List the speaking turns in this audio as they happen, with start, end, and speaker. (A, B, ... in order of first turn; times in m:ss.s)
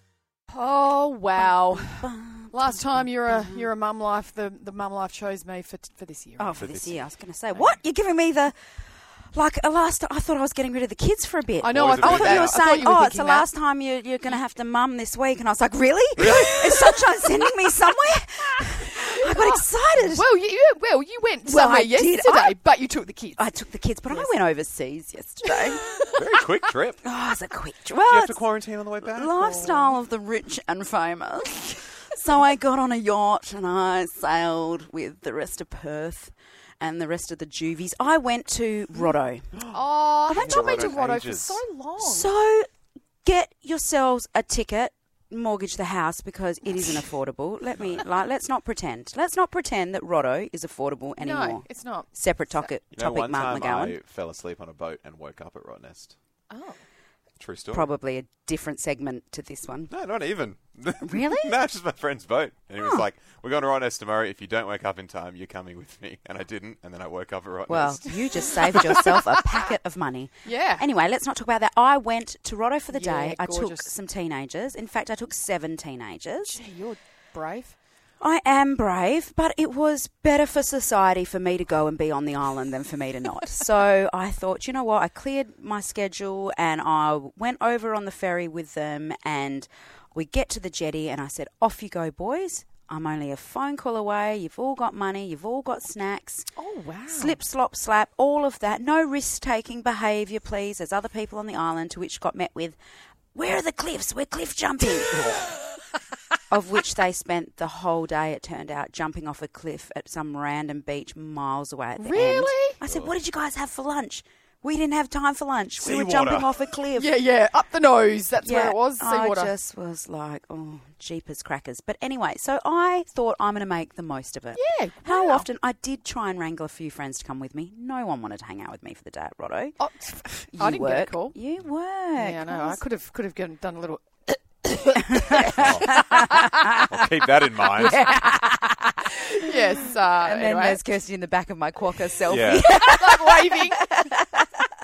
0:00.5-0:06.6 A
0:01.4-0:03.7 B
0:06.4-0:08.6 B
0:06.6-0:07.0 C
0:09.3-0:20.2 B
0:11.6-0:13.5 A
0:11.7-0:12.6 C
0:16.2-0:16.9 C
0:19.1-0:23.4 A
0:21.4-0:22.5 B
0:23.4-0:26.1 B
0:26.2-0:27.0 C
0:27.0-0:28.5 B
0:28.1-0:29.3 C
0:29.0-0:39.5 B
0:29.4-0:30.0 A
0:39.7-0:42.3 A
0:40.3-0:41.0 B
0:40.3-0:41.6 C
0:42.0-0:42.7 B
0:43.2-0:54.0 B
0:47.7-0:48.0 C
0:51.2-0:52.7 A
0:52.9-0:56.1 C
0:56.5-0:56.8 A
0:57.4-0:57.9 C
0:57.7-0:59.9 B
0:59.9-1:09.1 C
1:01.0-1:01.6 B
1:07.7-1:16.6 B
1:10.4-1:10.8 A
1:12.9-1:13.9 A
1:16.5-1:17.7 A
1:18.2-1:36.5 B
1:36.5-1:37.4 A
1:37.1-1:42.8 B
1:43.3-1:45.2 B
1:46.5-1:57.1 B
1:52.0-1:52.8 A
1:52.8-1:53.1 C
1:55.8-1:56.5 C
1:56.9-1:59.5 A
1:58.4-2:09.8 B
2:04.5-2:05.5 A
2:09.8-2:11.4 A
2:10.5-2:12.8 B
2:12.2-2:16.0 A
2:15.2-2:16.9 B
2:15.4-2:15.9 C
2:16.9-2:18.1 C
2:17.8-2:19.5 B
2:19.4-2:20.8 A
2:20.2-2:24.6 B
2:22.3-2:22.7 C
2:22.8-2:23.9 A